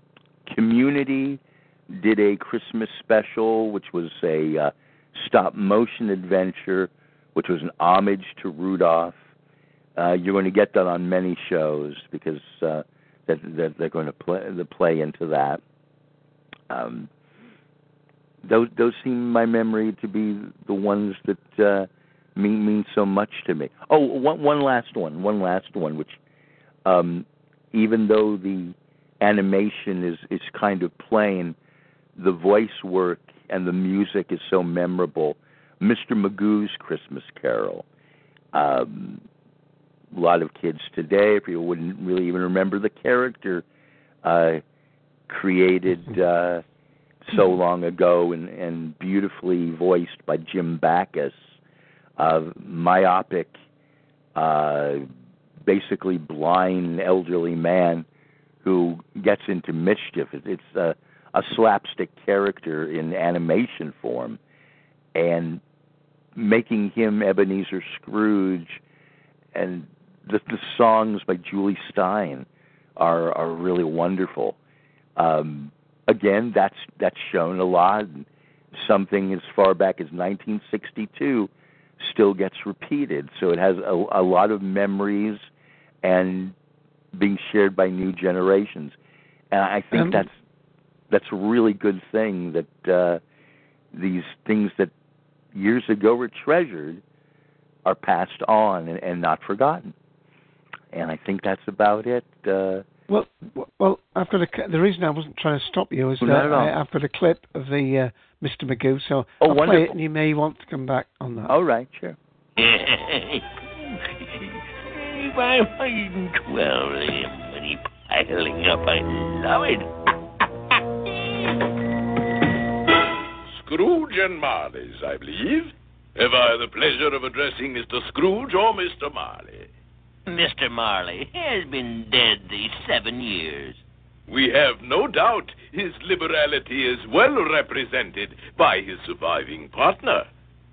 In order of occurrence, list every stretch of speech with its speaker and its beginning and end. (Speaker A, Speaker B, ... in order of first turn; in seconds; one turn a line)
Speaker A: 0.5-9.2
Speaker A: 10.0-15.6
Speaker A: 16.7-17.1
Speaker A: 18.4-26.2
Speaker A: 26.9-31.6
Speaker A: 32.2-37.9
Speaker A: 38.5-39.2
Speaker A: 40.1-43.6
Speaker A: 44.2-44.6
Speaker A: 45.3-46.6
Speaker A: 47.2-51.6
Speaker A: 52.2-53.6
Speaker A: 54.4-55.0
Speaker A: 55.6-58.1
Speaker A: 58.6-64.4
Speaker A: 65.1-65.6
Speaker A: 66.4-68.8
Speaker A: 69.5-72.5
Speaker A: 73.0-74.6
Speaker A: 75.2-85.5
Speaker A: 86.0-86.5
Speaker A: 87.1-89.0
Speaker A: 89.5-90.3
Speaker B: 89.9-90.3
Speaker A: 91.1-93.2
Speaker A: 93.9-94.9
Speaker A: 95.5-97.0
Speaker A: 97.8-99.9
Speaker A: 100.9-102.8
Speaker B: 103.1-111.5
Speaker A: 106.2-106.7
Speaker A: 109.4-109.9
Speaker A: 111.5-112.2
Speaker C: 112.6-113.6
Speaker C: 114.2-119.9
Speaker C: 121.1-121.5
Speaker D: 123.5-129.7
Speaker C: 130.3-133.8
Speaker D: 134.3-140.3